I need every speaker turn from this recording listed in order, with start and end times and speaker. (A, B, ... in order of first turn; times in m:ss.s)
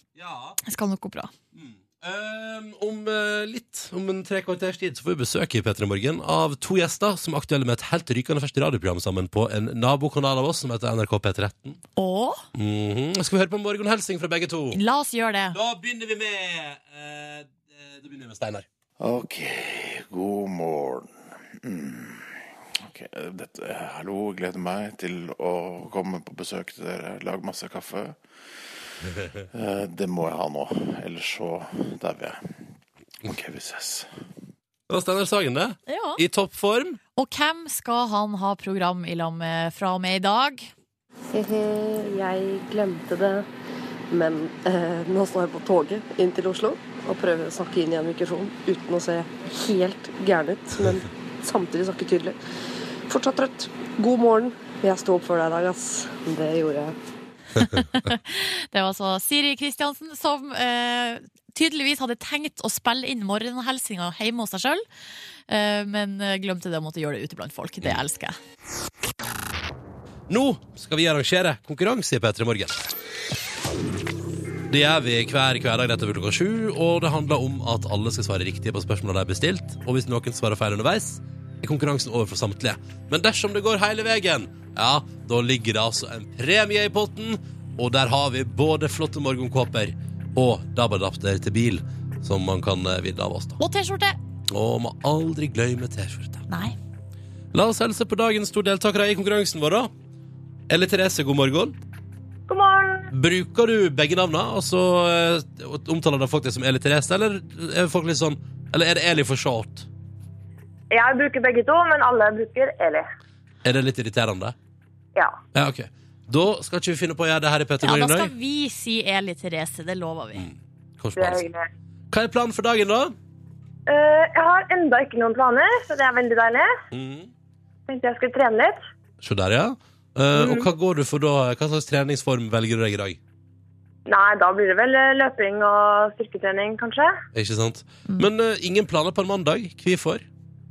0:00.2-0:00.6 A
0:00.6-0:01.3 B
0:01.5-0:11.8 A
0:12.0-0:12.4 B
0:12.5-0:14.8 A
0:14.7-0:15.6 B
0:15.5-0:18.7 A
0:19.0-0:28.2 C
0:29.5-0:32.4 C
0:33.2-0:34.1 C
0:34.9-0:37.0 A
0:35.9-0:36.2 B
0:37.2-0:40.7 B
0:41.3-0:43.5 D
0:44.1-0:52.4 D
0:53.1-0:57.0 D
0:57.6-1:04.8 B
1:05.5-1:08.4 B
1:10.3-1:12.8 A
1:14.7-1:33.6 A
1:33.6-1:34.2 B
1:34.5-1:36.4 A
1:36.5-1:36.8 B
1:37.5-1:39.9 A
1:40.7-1:41.8 A
1:42.5-1:43.1 E
1:43.1-1:49.9 A
1:50.9-1:53.1 E
1:53.6-1:54.6 A
1:55.5-1:58.3 A
1:57.8-2:00.5 B
2:00.4-2:01.5 A
2:01.2-2:01.7 E
2:02.1-2:03.2 A
2:03.9-2:06.7 E
2:06.9-2:07.3 A
2:07.9-2:08.8 E
2:09.2-2:13.2 A
2:10.3-2:10.7 E
2:14.1-2:17.2 E
2:17.3-2:20.2 A